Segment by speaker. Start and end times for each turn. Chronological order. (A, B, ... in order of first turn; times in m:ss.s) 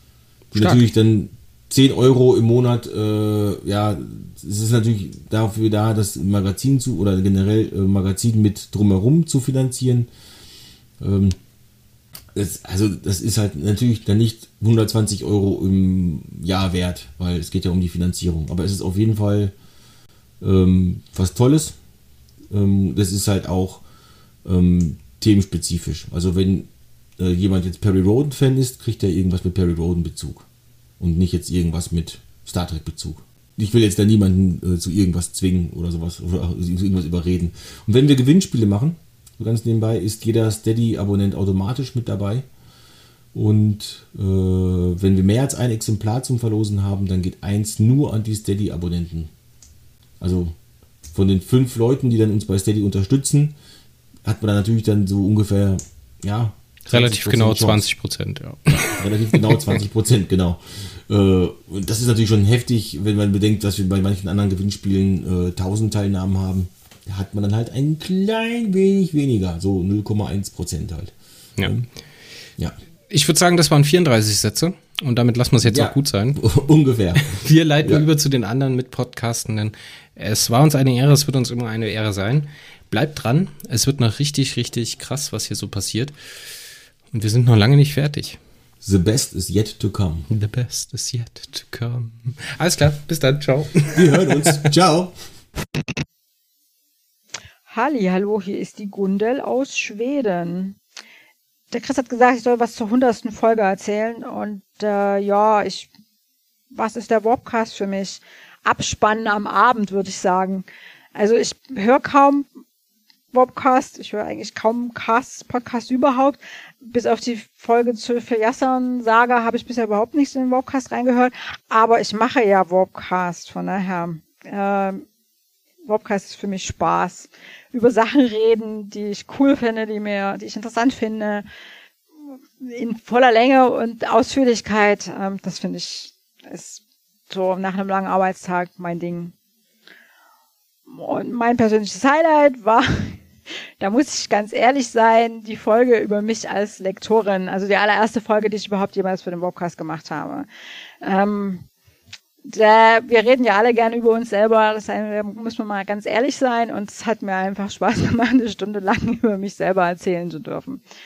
0:00.5-0:00.9 A
0:00.5-0:10.1 B
0:11.0-0:11.4 B
0:12.3-0:19.5 B
0:20.4-0:21.8 B
0:22.5-0:23.8 B
0:24.4-0:30.4 B
0:31.0-0:42.4 B
0:43.3-0:49.3 B
0:50.2-0:50.6 B
0:51.1-0:53.5 B
0:54.2-0:57.9 B
0:56.9-0:59.8 A
0:58.7-1:11.9 B
1:13.1-1:16.4 A
1:15.6-1:17.3 B
1:17.2-1:26.1 A
1:27.1-1:28.4 A
1:28.8-1:30.3 B
1:30.3-1:34.5 A
1:33.9-1:35.1 B
1:37.7-1:40.8 C
1:41.7-1:45.9 C
1:46.7-1:52.5 C
1:53.3-2:05.0 C
2:05.8-2:11.4 C
2:12.6-2:19.3 C
2:20.9-2:23.2 C
2:23.8-2:30.5 C
2:31.0-2:31.7 C
2:32.5-2:40.8 C